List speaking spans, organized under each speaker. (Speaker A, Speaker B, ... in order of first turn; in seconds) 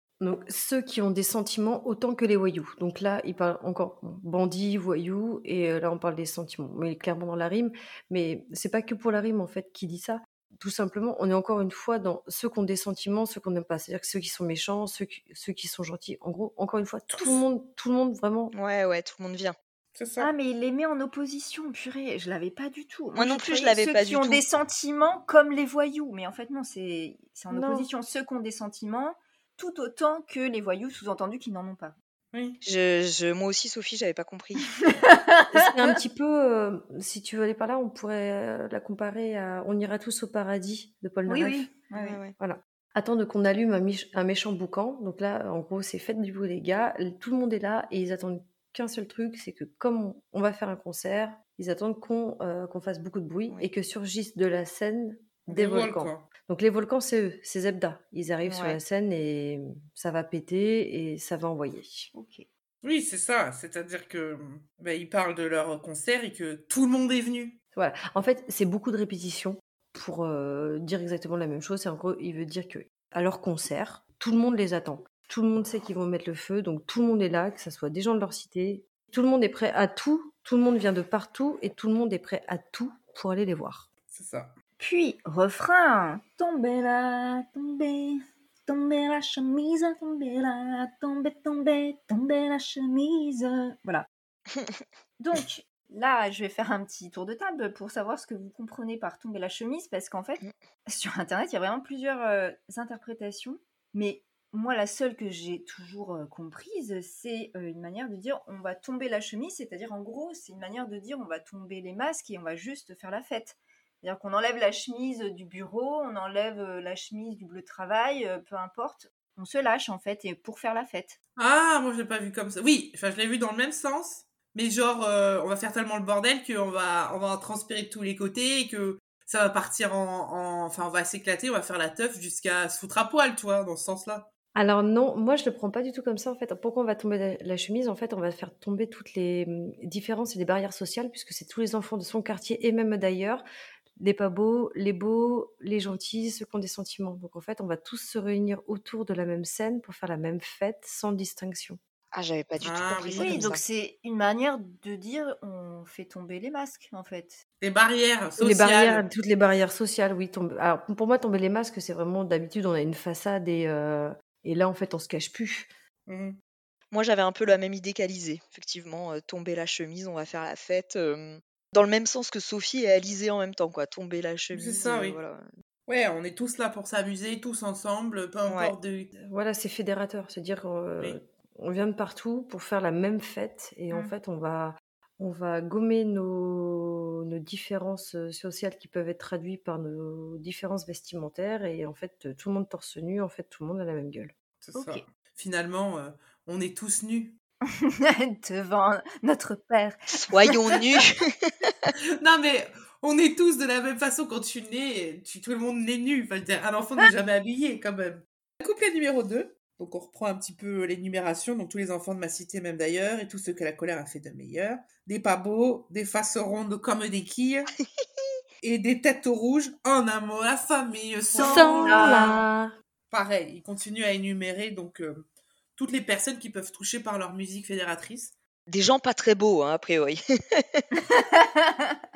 Speaker A: 0.2-18.5, 27.5-27.9, 35.5-41.7, 42.4-62.1, 67.7-83.9, 134.6-143.4, 144.0-151.8, 158.4-165.7, 179.2-194.3, 221.4-222.7
Speaker B: 17.1-17.4, 20.0-20.3, 32.3-32.6, 55.5-56.3, 62.8-67.6, 84.1-84.5, 121.4-134.3, 152.6-153.5, 157.6-159.1, 166.1-166.4, 174.5-175.2, 175.9-179.1, 194.6-197.3, 202.2-217.7, 218.6-222.4, 223.1-225.2, 225.8-228.3
Speaker C: 18.5-19.6, 23.1-24.4, 32.6-34.8, 41.9-42.4, 58.5-58.8, 94.5-94.8, 152.1-153.6, 166.9-175.5, 178.5-178.7, 200.2-201.9, 228.7-230.8
Speaker D: 20.2-31.9, 34.9-35.9, 41.3-42.2, 62.1-62.5, 84.8-94.1, 95.2-121.2, 153.2-157.4, 194.7-195.0, 197.7-200.0, 221.3-222.4, 231.0-232.0